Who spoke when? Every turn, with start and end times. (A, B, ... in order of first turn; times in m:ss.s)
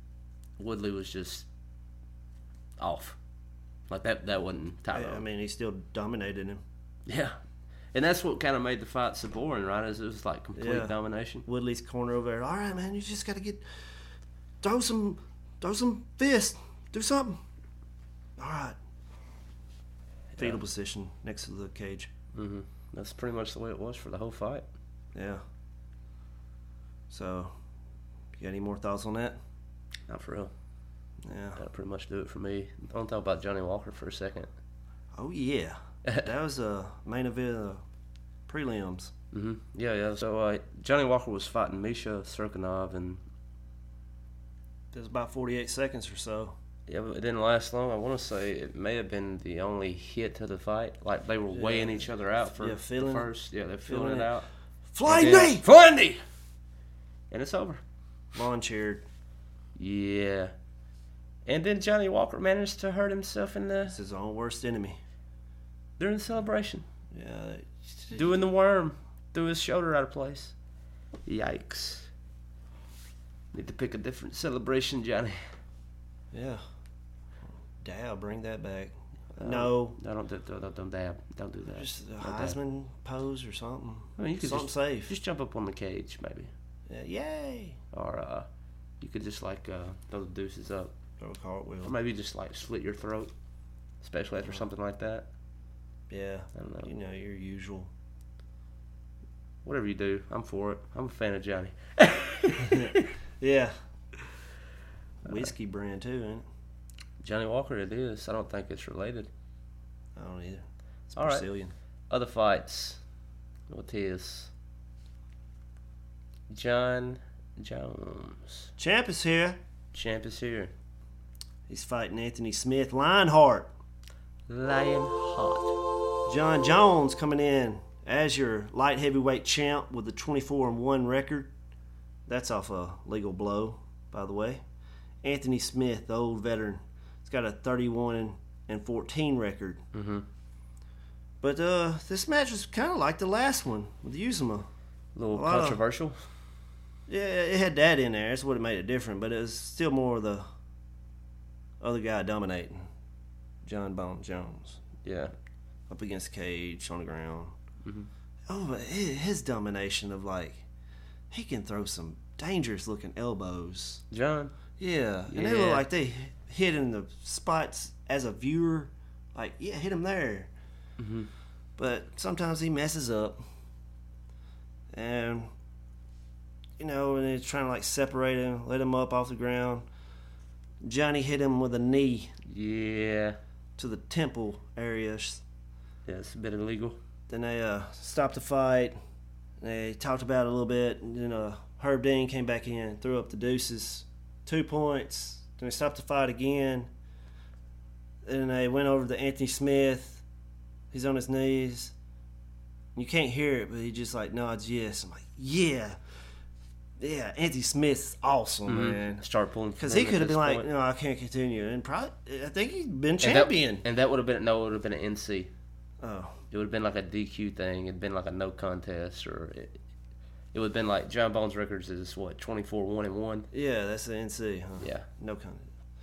0:00.6-0:01.4 A
0:02.8-0:03.2 A
0:03.9-0:05.2 A
0:04.9-0:06.6 B
0:07.1-0:07.4 A
0:07.9-0:11.4 A
0:10.6-0:13.6 B
0:14.6-0:17.4 B
0:18.4-0:18.8 B
0:20.4-0:20.6 A
0:20.4-0:22.1 B
0:22.3-0:24.6 A
0:25.1-0:25.4 B
0:27.1-0:27.5 B
0:28.4-0:29.4 B
0:30.1-0:30.5 A
0:31.2-0:31.6 B
0:31.6-0:34.5 A
0:35.1-0:37.8 B
0:38.5-0:39.1 B
0:39.3-0:43.2 A
0:44.9-0:46.6 B
0:46.9-0:54.5 A
0:51.5-0:53.3 B
0:53.8-0:54.3 B
0:54.9-0:55.6 B
0:55.0-0:56.2 A
0:57.3-0:57.8 A
0:58.3-0:59.0 B
0:59.8-1:00.5 A
1:01.4-1:04.0 A
1:03.9-1:05.0 B
1:06.0-1:06.9 A
1:07.1-1:08.4 B
1:08.1-1:10.6 A
1:11.2-1:12.1 A
1:13.5-1:15.4 A
1:16.3-1:16.6 B
1:17.8-1:20.0 B
1:19.4-1:22.6 A
1:21.6-1:25.1 B
1:24.2-1:26.5 A
1:26.9-1:27.8 B
1:27.9-1:28.5 A
1:29.0-1:30.9 A
1:31.2-1:31.9 B
1:31.8-1:33.3 A
1:34.0-1:35.3 A
1:36.1-1:37.9 B
1:36.6-1:36.9 A
1:39.6-1:43.1 A
1:42.6-1:43.7 B
1:45.2-1:46.4 B
1:47.2-1:49.3 A
1:50.2-1:51.7 B
1:51.2-1:51.5 A
1:52.1-1:53.0 A
1:53.7-1:54.5 A
1:56.5-1:58.7 A
1:58.8-1:59.6 B
1:59.9-2:00.7 A
2:01.7-2:03.7 B
2:04.5-2:05.8 A
2:06.2-2:11.5 B
2:12.3-2:14.6 B
2:15.2-2:19.8 B
2:19.9-2:20.2 A
2:21.4-2:24.7 B
2:25.1-2:26.2 A
2:25.3-2:25.8 B
2:27.1-2:30.4 B
2:31.8-2:32.9 B
2:33.6-2:34.8 B
2:35.0-2:35.3 A
2:35.9-2:37.6 B
2:37.8-2:38.1 A
2:38.5-2:40.6 B
2:41.3-2:44.0 B
2:44.1-2:44.6 A
2:44.8-2:50.5 B
2:45.3-2:45.8 A
2:51.0-2:51.3 A
2:51.8-2:53.4 B
2:54.9-2:55.5 B
2:56.8-2:59.8 B
3:00.8-3:02.3 B
3:02.4-3:03.4 A
3:03.8-3:05.4 B
3:06.1-3:07.0 A
3:07.3-3:09.0 B
3:09.6-3:16.9 B
3:18.2-3:20.2 B
3:20.9-3:21.9 B
3:23.0-3:26.0 B
3:27.0-3:29.2 B
3:28.6-3:30.7 A
3:29.8-3:33.8 B
3:33.2-3:35.5 A
3:36.0-3:36.4 B
3:36.5-3:39.8 A
3:40.5-3:43.5 A
3:43.5-3:45.7 B
3:44.8-3:45.1 A